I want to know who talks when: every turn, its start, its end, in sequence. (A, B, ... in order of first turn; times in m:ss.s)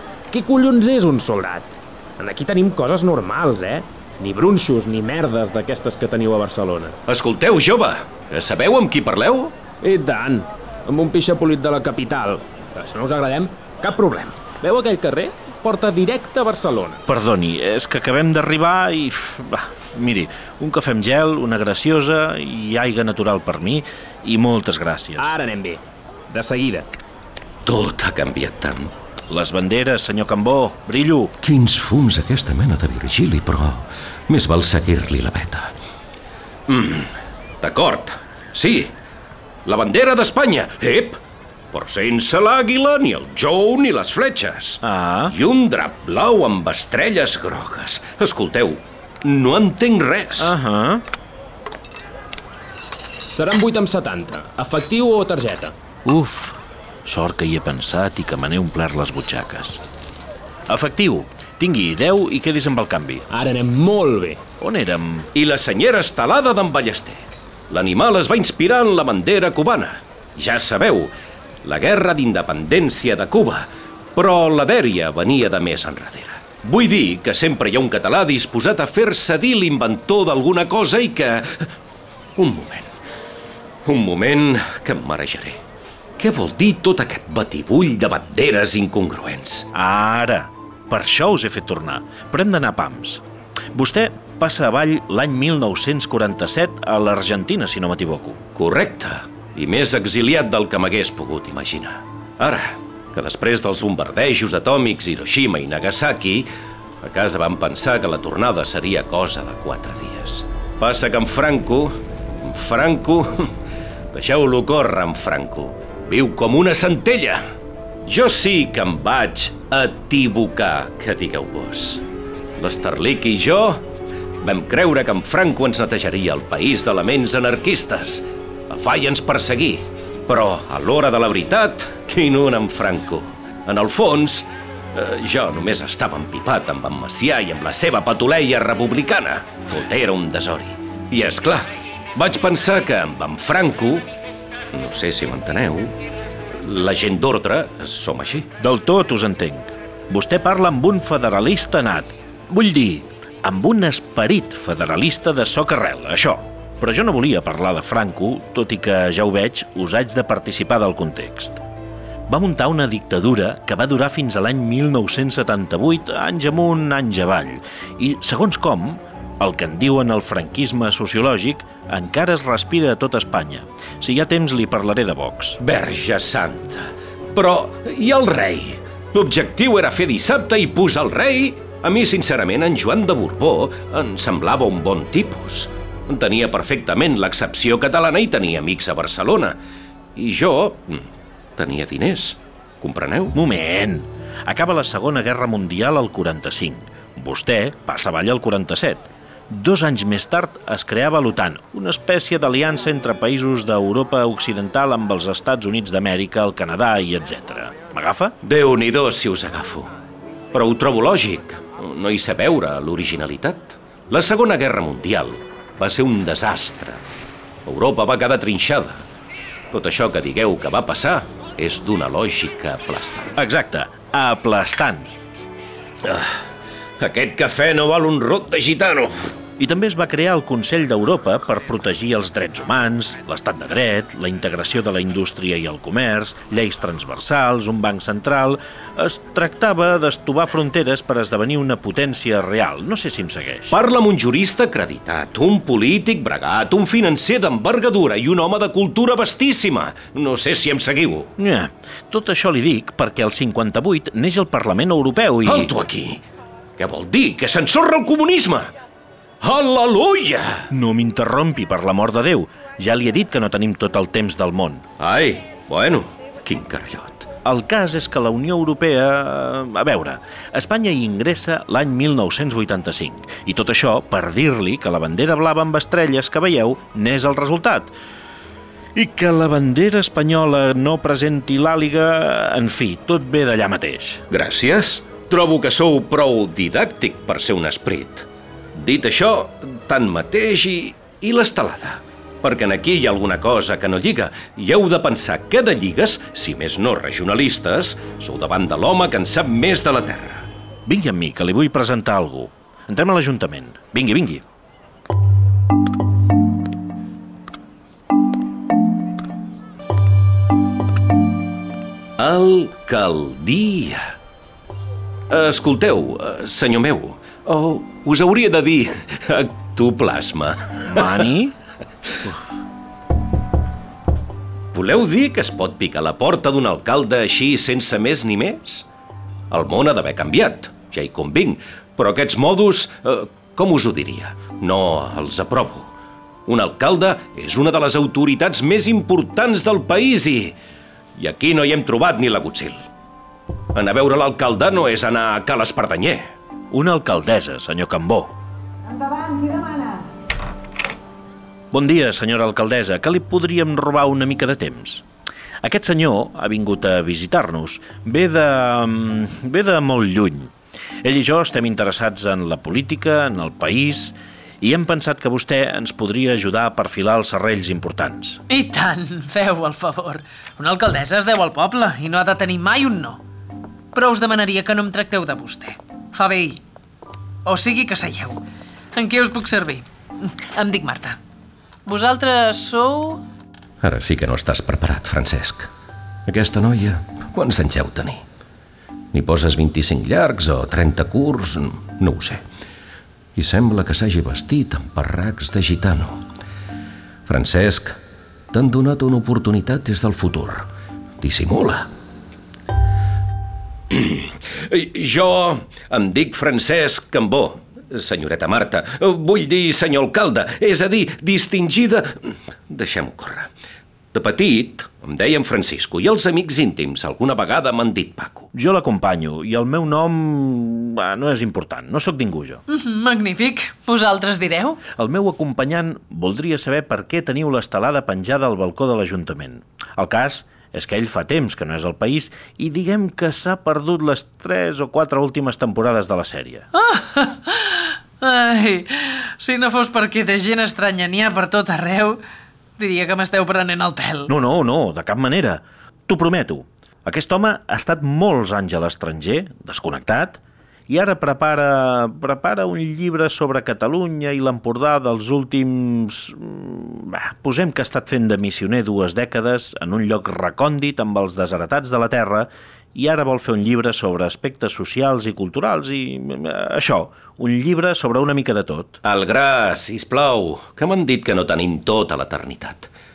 0:00.3-0:07.0 A
0:07.1-0:09.6 B
0:09.8-0:17.0 A
0:17.1-0:25.3 C
0:25.2-0:26.9 A
0:27.7-0:28.9 B
0:29.3-0:31.3 C
0:31.4-0:35.7 B
0:36.7-0:38.9 B
0:39.6-0:41.2 B
0:41.7-0:50.5 B
0:44.8-0:45.4 C
0:50.4-0:51.0 C
0:53.3-0:55.7 A
0:56.0-0:59.8 C
1:00.7-1:03.2 C
1:03.3-1:04.4 A
1:04.6-1:05.3 C
1:05.3-1:07.2 B
1:07.7-1:11.1 B
1:11.6-1:21.7 B
1:22.4-1:22.9 B
1:23.8-1:25.6 B
1:26.2-1:29.7 B
1:29.7-1:33.2 C
1:33.7-1:38.4 C
1:38.6-1:46.5 B
1:47.0-1:53.6 B
1:54.1-1:57.4 B
1:58.0-2:02.0 B
2:02.6-2:03.8 B
2:04.4-2:24.1 B
2:24.7-2:26.0 B
2:26.6-2:28.5 B
2:28.6-2:41.6 C
2:42.3-2:55.6 C
2:55.6-3:09.6 B
3:10.2-3:13.4 B
3:13.3-3:28.3 C
3:28.4-3:29.9 B
3:30.5-3:37.0 B
3:37.7-3:39.0 B
3:39.7-3:43.4 B
3:43.4-3:45.1 C
3:46.0-3:46.4 B
3:47.0-3:49.1 B
3:49.6-4:03.8 C
4:03.7-4:11.3 B
4:11.4-4:15.7 C
4:15.4-4:16.2 B
4:16.8-4:18.7 B
4:19.4-4:20.7 B
4:20.7-4:24.9 C
4:25.0-4:27.3 B
4:27.4-4:37.9 C
4:39.0-4:44.2 C
4:44.3-5:00.5 B
5:00.9-5:04.4 C
5:12.2-5:14.1 B
5:15.3-5:21.3 B
5:20.9-5:21.6 C
5:24.7-5:28.8 B
5:29.5-5:35.9 B
5:36.5-5:40.6 B
5:41.2-5:42.8 B
5:43.7-5:46.3 B
5:46.7-5:48.3 C
5:51.7-5:55.0 C
5:55.6-6:08.4 C
6:08.5-6:13.2 D
6:13.9-6:16.6 D
6:17.4-6:18.4 D
6:19.0-6:21.2 D
6:21.9-6:23.2 D
6:23.8-6:25.7 B
6:26.3-6:28.2 B
6:29.1-6:32.4 B
6:33.4-6:36.3 B
6:37.3-6:38.0 B
6:38.5-6:40.7 B
6:41.2-6:41.9 B
6:43.9-6:53.5 B
6:54.1-6:58.5 B
6:58.5-7:02.6 C
7:02.7-7:04.8 D
7:05.0-7:16.7 C
7:16.7-7:22.2 D
7:22.8-7:24.3 D
7:24.3-7:49.0 C
7:49.0-7:52.9 B